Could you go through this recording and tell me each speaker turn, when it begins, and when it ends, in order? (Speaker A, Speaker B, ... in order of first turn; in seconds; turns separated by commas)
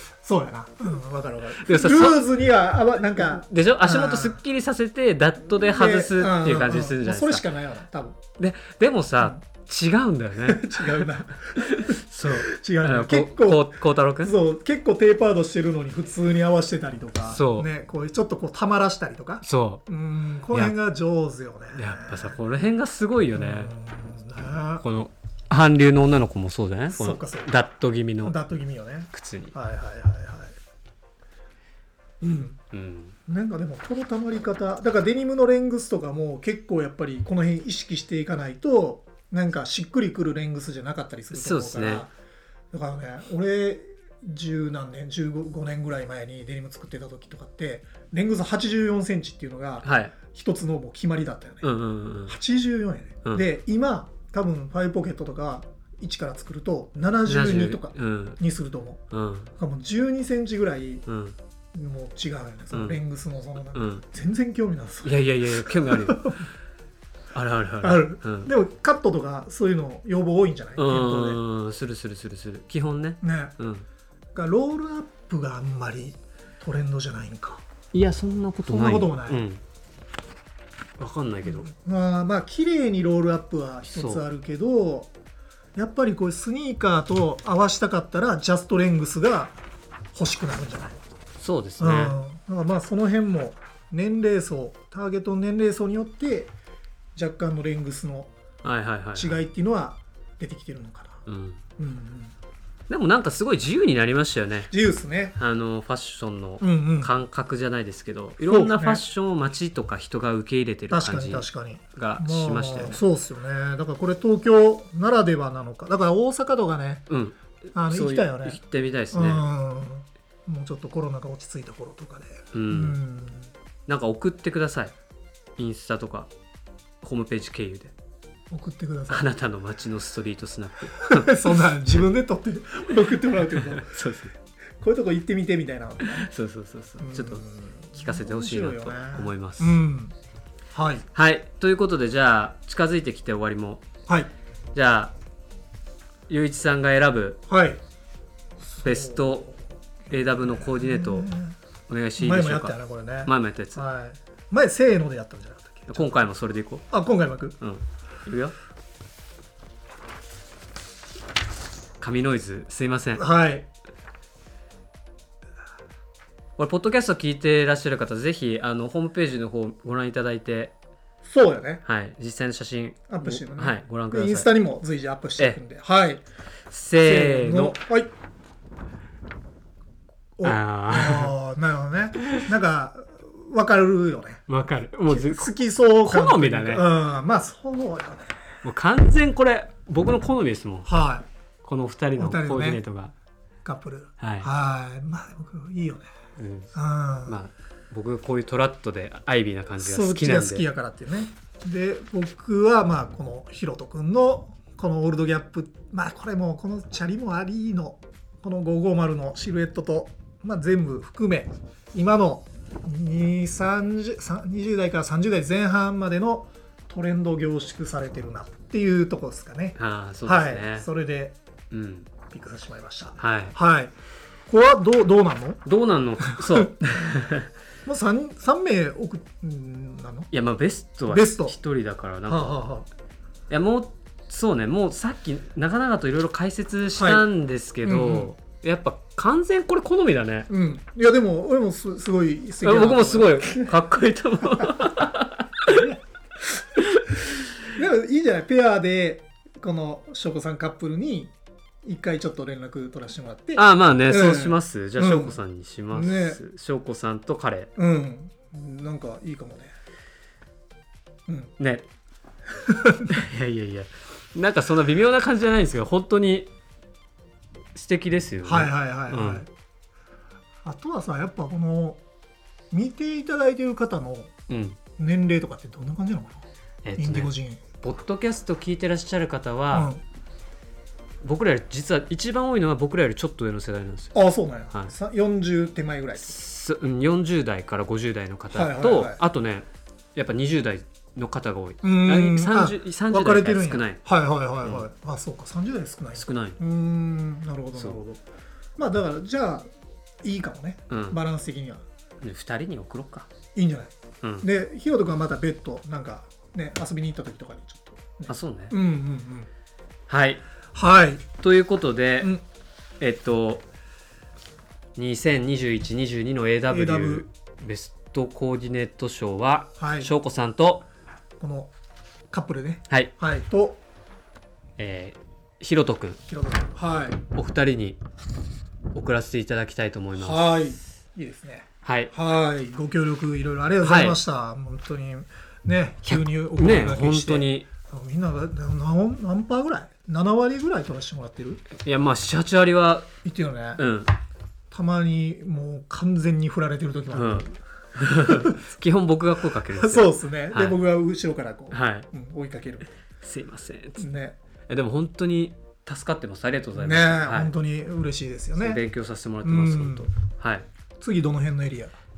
Speaker A: 0.2-4.4, Speaker B: 1.6-2.2, Speaker B: 3.2-7.5, Speaker A: 5.6-8.2, Speaker B: 8.4-14.3, Speaker A: 10.4-22.4, Speaker B: 17.3-17.7, Speaker B: 19.4-19.8, Speaker B: 21.7-23.7, Speaker A: 23.3-24.8, Speaker B: 24.8-28.3, Speaker A: 26.9-27.5, Speaker A: 28.2-30.6, Speaker B: 29.1-29.5, Speaker A: 32.2-32.6, Speaker B: 32.7-33.1, Speaker A: 33.3-42.1, Speaker B: 41.3-42.0, Speaker A: 42.7-51.6, Speaker B: 49.8-50.1, Speaker B: 51.6-52.4, Speaker A: 52.3-59.0, Speaker B: 57.2-58.4, Speaker B: 59.1-59.5, Speaker A: 59.6-61.0, Speaker B: 61.0-61.4, Speaker A: 61.7-66.4, Speaker B: 62.7-63.0, Speaker B: 63.7-64.0, Speaker B: 65.0-66.4, Speaker B: 67.3-68.5, Speaker A: 67.8-71.4, Speaker B: 70.8-73.8, Speaker A: 73.2-73.5, Speaker A: 74.3-77.6, Speaker B: 77.9-79.6, Speaker A: 78.7-79.4, Speaker B: 81.0-81.7, Speaker A: 81.4-85.1, Speaker B: 83.9-84.2, Speaker A: 85.7-89.6, Speaker A: 90.1-91.0, Speaker B: 91.4-92.2, Speaker A: 91.8-96.5, Speaker A: 97.1-98.3, Speaker B: 98.6-99.4, Speaker A: 99.1-101.2, Speaker B: 101.2-101.6, Speaker A: 101.8-102.3, Speaker B: 102.9-104.7, Speaker A: 104.7-105.4, Speaker B: 105.3-113.0, Speaker A: 106.6-107.1, Speaker A: 108.4-109.0, Speaker A: 110.9-117.1, Speaker B: 117.1-119.5, Speaker A: 117.7-118.6, Speaker A: 119.1-123.5, Speaker B: 122.5-123.0, Speaker B: 123.9-124.9, Speaker B: 125.6-126.3, Speaker B: 127.0-127.9, Speaker A: 128.5-129.2, Speaker B: 129.1-132.0, Speaker A: 131.0-134.0, Speaker B: 133.5-134.3, Speaker A: 134.8-136.3, Speaker B: 136.0-139.8, Speaker A: 137.0-140.1, Speaker A: 140.7-141.1, Speaker B: 141.1-143.8, Speaker B: 144.7-145.1, Speaker B: 146.3-147.4, Speaker A: 147.5-147.8, Speaker A: 148.6-149.5, Speaker B: 148.8-149.5, Speaker B: 150.1-151.3, Speaker A: 150.3-151.6, Speaker B: 151.9-153.8, Speaker A: 152.2-156.2, Speaker B: 155.9-156.8, Speaker A: 156.9-157.6, Speaker B: 157.6-158.5, Speaker B: 162.0-163.2, Speaker A: 163.2-163.7, Speaker B: 166.6-170.7, Speaker A: 171.2-171.8, Speaker B: 171.8-174.5, Speaker A: 173.1-176.2, Speaker B: 176.7-177.8, Speaker A: 177.0-178.1, Speaker A: 180.4-184.4, Speaker B: 180.4-181.3, Speaker B: 182.2-182.5, Speaker B: 184.5-186.8, Speaker A: 185.1-188.4, Speaker B: 188.6-190.9, Speaker A: 190.8-191.2, Speaker B: 191.6-193.1, Speaker A: 192.2-192.8, Speaker A: 193.6-196.1, Speaker B: 194.2-194.5, Speaker B: 196.4-196.7, Speaker A: 196.7-197.4, Speaker B: 197.2-200.7, Speaker A: 199.8-221.4, Speaker B: 219.8-220.9, Speaker B: 221.7-222.1, Speaker A: 222.3-223.9, Speaker B: 223.2-223.6, Speaker A: 224.5-225.6, Speaker B: 225.6-227.5, Speaker A: 226.2-226.7, Speaker A: 227.8-230.3, Speaker B: 230.3-232.6, Speaker A: 231.1-231.6, Speaker A: 232.3-232.9, Speaker B: 233.5-240.5, Speaker A: 236.9-237.2, Speaker A: 237.8-238.3, Speaker A: 240.5-243.8, Speaker B: 242.6-245.9, Speaker A: 244.4-245.0, Speaker A: 245.7-246.0, Speaker B: 246.8-247.3, Speaker A: 247.7-255.4, Speaker B: 253.6-257.7, Speaker A: 255.9-256.4, Speaker A: 257.8-259.7, Speaker A: 261.3-261.5, Speaker B: 261.6-261.9, Speaker A: 262.6-263.2, Speaker B: 263.1-266.5, Speaker B: 267.7-269.4, Speaker A: 268.4-269.5, Speaker A: 270.6-272.0, Speaker A: 272.7-274.3, Speaker B: 274.5-274.8, Speaker A: 275.0-276.4, Speaker B: 276.8-279.9, Speaker A: 277.0-277.6, Speaker A: 279.7-280.0, Speaker B: 281.2-284.1, Speaker A: 284.1-286.4, Speaker B: 286.2-294.0, Speaker A: 288.5-289.2, Speaker A: 291.8-298.2, Speaker B: 296.1-296.6, Speaker A: 298.8-299.7, Speaker A: 300.2-301.8, Speaker B: 300.9-301.2, Speaker B: 302.2-303.3, Speaker A: 303.5-309.5, Speaker B: 308.3-308.7, Speaker B: 310.1-310.4, Speaker A: 310.7-311.3, Speaker B: 311.4-312.3, Speaker B: 313.0-313.6, Speaker B: 314.9-320.9, Speaker A: 316.7-317.2, Speaker A: 319.8-320.1, Speaker A: 321.4-321.7, Speaker A: 322.3-323.8, Speaker B: 324.8-326.2, Speaker A: 326.3-327.2, Speaker B: 327.3-328.0, Speaker B: 328.9-330.5, Speaker A: 330.2-341.6, Speaker B: 331.8-332.1, Speaker B: 333.8-334.2, Speaker B: 336.1-337.7, Speaker B: 341.7-343.1, Speaker A: 343.2-343.8, Speaker B: 343.8-344.1, Speaker A: 344.7-347.5, Speaker B: 347.1-350.8, Speaker A: 348.1-348.6, Speaker A: 349.7-352.9, Speaker B: 351.7-352.1, Speaker B: 353.2-354.0, Speaker A: 354.0-354.4, Speaker B: 354.7-357.5, Speaker A: 356.8-358.8, Speaker B: 358.6-360.6, Speaker A: 359.4-360.1, Speaker A: 361.0-361.9